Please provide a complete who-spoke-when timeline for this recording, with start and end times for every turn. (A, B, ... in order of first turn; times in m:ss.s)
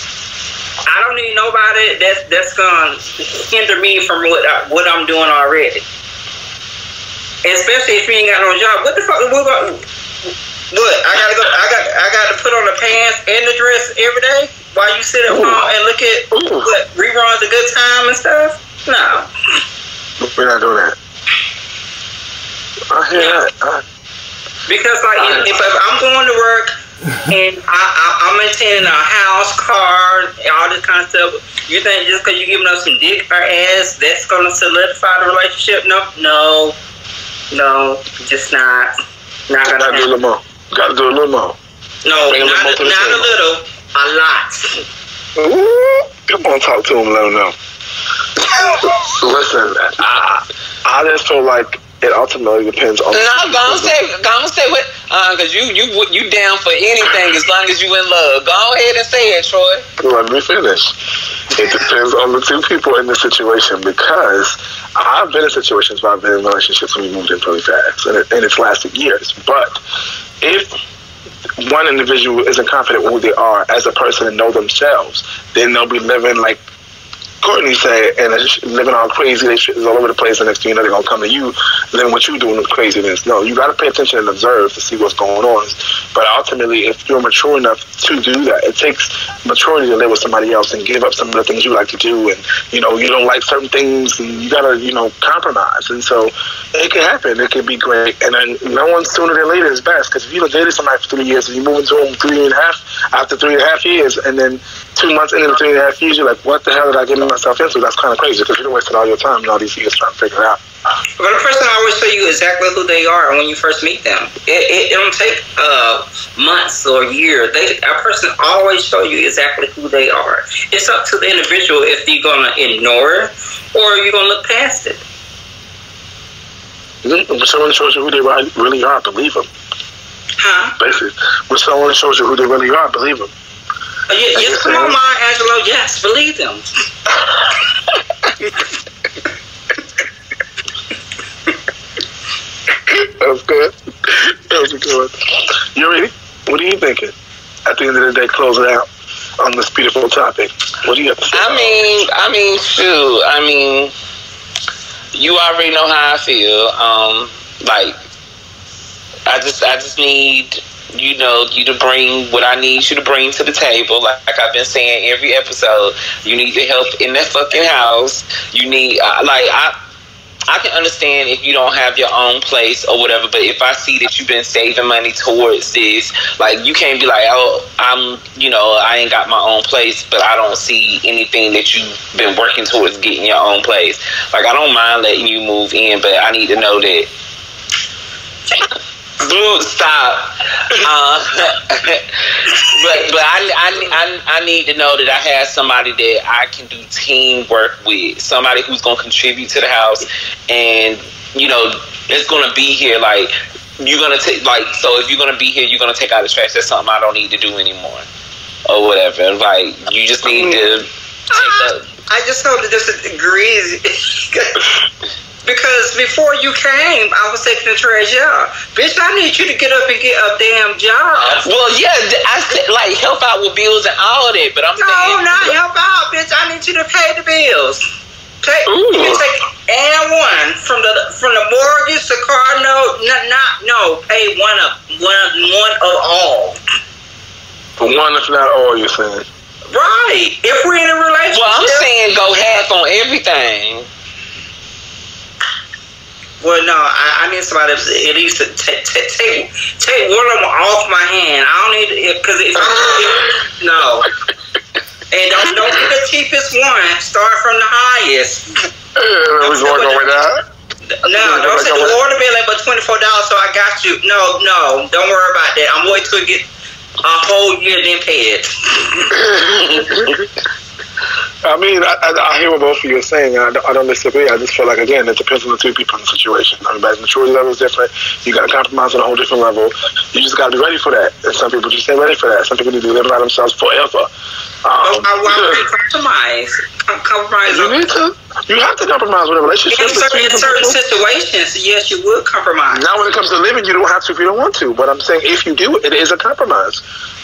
0:00.8-0:05.8 A
0:07.4-0:09.8 A
0:10.7-0:19.3 A
0:15.3-0:15.7 B
0:16.3-0:16.7 B
0:20.2-0:21.0 B
0:22.9-0:23.8 B
0:23.1-0:23.4 A
0:24.6-0:26.7 A
0:25.2-0:25.4 B
0:27.2-0:36.8 A
0:37.5-0:38.9 A
0:39.5-0:40.1 A
0:39.7-0:41.6 B
0:42.0-0:44.7 A
0:42.3-0:43.3 B
0:45.4-0:47.5 B
0:48.6-0:54.0 B
0:53.1-0:59.8 C
1:00.0-1:00.9 B
1:01.5-1:09.8 B
1:10.4-1:10.7 B
1:11.6-1:16.6 B
1:17.4-1:50.6 B
1:51.2-2:05.0 A
2:07.0-2:09.5 B
2:10.4-2:10.7 A
2:10.8-2:13.3 B
2:14.1-2:16.6 A
2:14.3-2:15.0 B
2:22.8-2:27.1 B
2:27.6-2:28.9 B
2:29.4-2:31.9 B
2:31.3-2:33.9 C
2:35.1-2:37.9 C
2:39.3-2:49.7 C
2:50.5-3:07.1 C
3:09.2-3:28.0 C
3:28.7-3:31.9 C
3:31.3-3:34.6 A
3:35.4-3:41.4 A
3:41.4-3:45.5 C
3:44.8-3:47.8 A
3:48.4-3:56.6 A
3:48.6-3:49.3 B
3:57.8-3:59.2 B
3:59.7-4:01.9 A
4:01.3-4:03.9 C
4:06.4-4:14.0 A
4:12.6-4:13.3 B
4:15.1-4:18.5 A
4:19.0-4:20.4 B
4:19.4-4:20.2 A
4:21.0-4:26.5 A
4:21.1-4:22.0 B
4:27.0-4:29.2 A
4:29.1-4:30.1 B
4:31.4-4:44.1 B
4:44.6-4:45.6 B
4:44.8-4:47.8 A
4:47.5-4:50.8 B
4:49.7-4:52.9 A
4:52.7-4:56.8 B